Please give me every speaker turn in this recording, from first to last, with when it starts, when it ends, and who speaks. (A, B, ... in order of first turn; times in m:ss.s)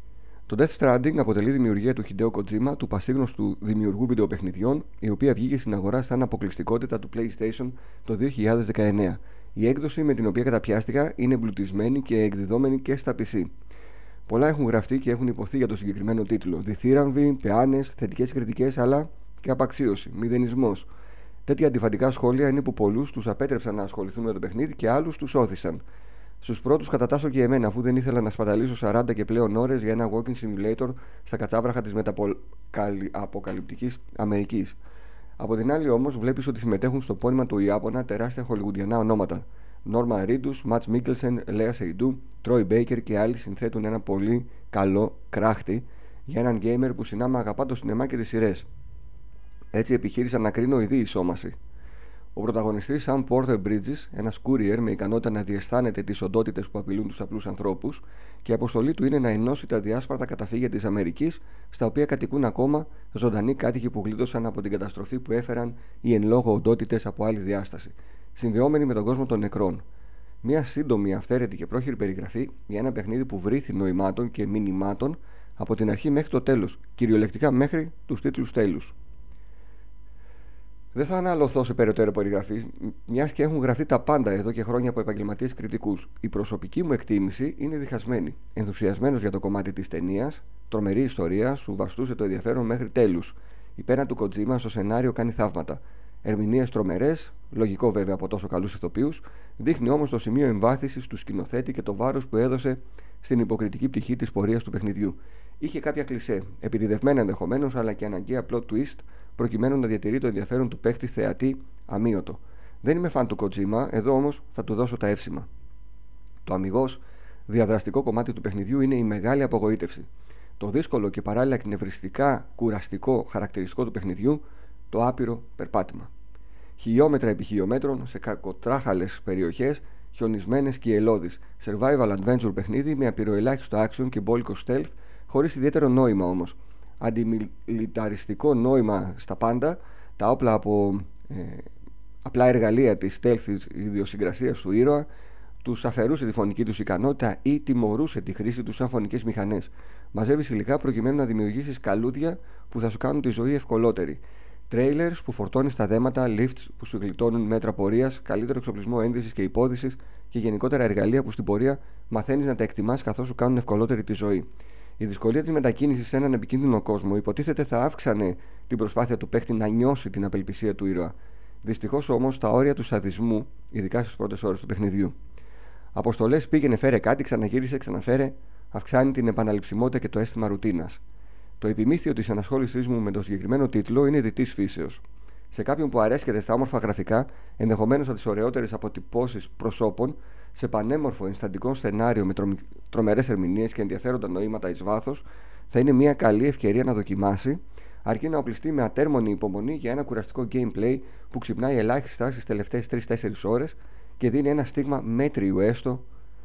0:00.5-0:13.5 A
0:14.3-0:20.9 A
0:21.5-0:25.8 A
0:26.4-0:34.8 A
0:35.4-0:48.7 A
0:49.7-0:51.6 A
0:52.4-1:09.8 A
1:10.4-1:19.0 A
1:20.9-1:55.5 A
1:56.4-2:00.1 A
2:00.6-2:06.1 A
2:06.8-2:21.7 A
2:22.2-2:25.1 A
2:25.6-2:44.5 A
2:45.0-2:55.2 A
2:56.0-3:01.0 A
3:01.6-3:26.0 A